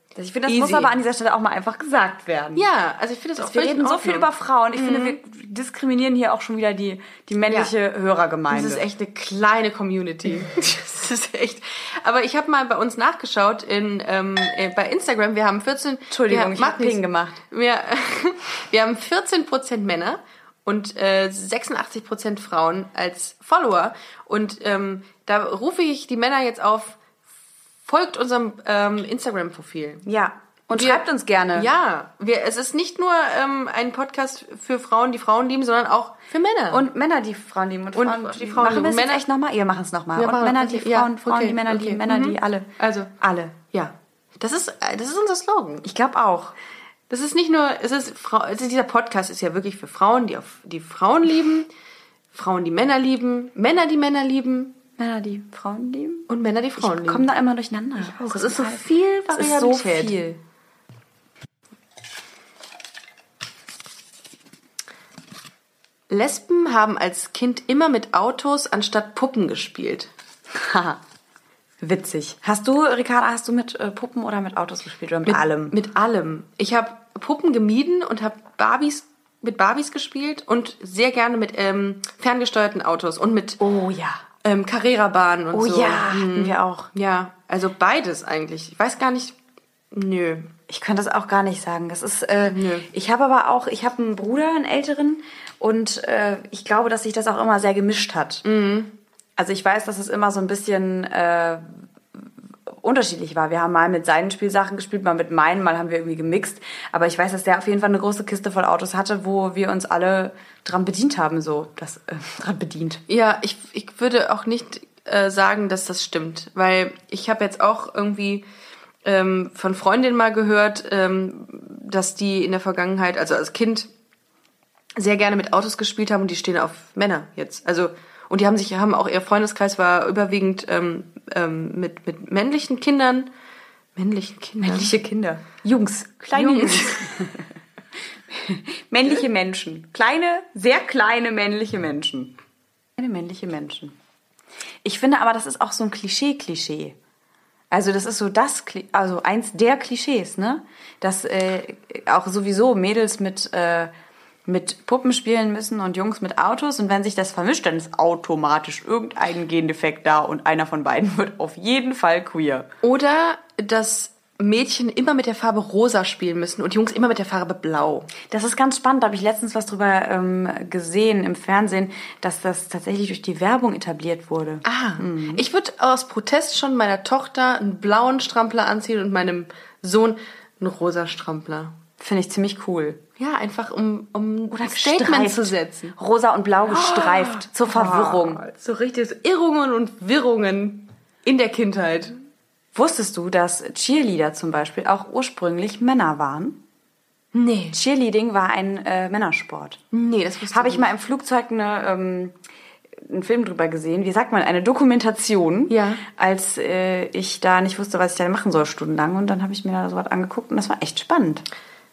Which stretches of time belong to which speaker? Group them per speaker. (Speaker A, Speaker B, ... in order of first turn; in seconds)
Speaker A: 0.1-2.7, 3.4-8.8, 16.1-17.4, 30.1-31.7, 36.7-43.5, 45.8-46.6, 55.0-60.4, 70.5-71.0, 71.8-75.8, 83.6-84.2, 85.5-86.9, 90.7-98.5, 99.4-113.0, 134.6-137.5, 138.3-142.4, 143.0-144.0, 144.8-147.0, 147.7-153.9, 154.5-162.7, 168.3-175.5, 182.0-183.0, 184.5-188.4, 192.7-196.6, 197.7-199.8, 200.5-202.4, 203.0-211.5
Speaker B: 0.5-0.9, 2.6-5.2, 7.5-7.8, 8.5-27.0, 27.9-30.1, 30.7-36.9, 38.0-39.2, 40.1-43.1, 43.7-45.9, 47.1-51.7, 52.3-54.8, 56.3-57.3, 58.0-60.3, 66.1-70.1, 75.2-83.6, 84.4-89.4, 89.9-90.5, 92.5-92.9, 98.5-98.9, 113.1-118.5, 119.0-123.9, 125.0-133.3, 134.0-134.9, 136.3-137.3, 162.8-168.1, 174.7-181.8, 183.2-185.9, 186.7-192.2, 197.3-197.8, 199.9-200.9, 205.7-206.0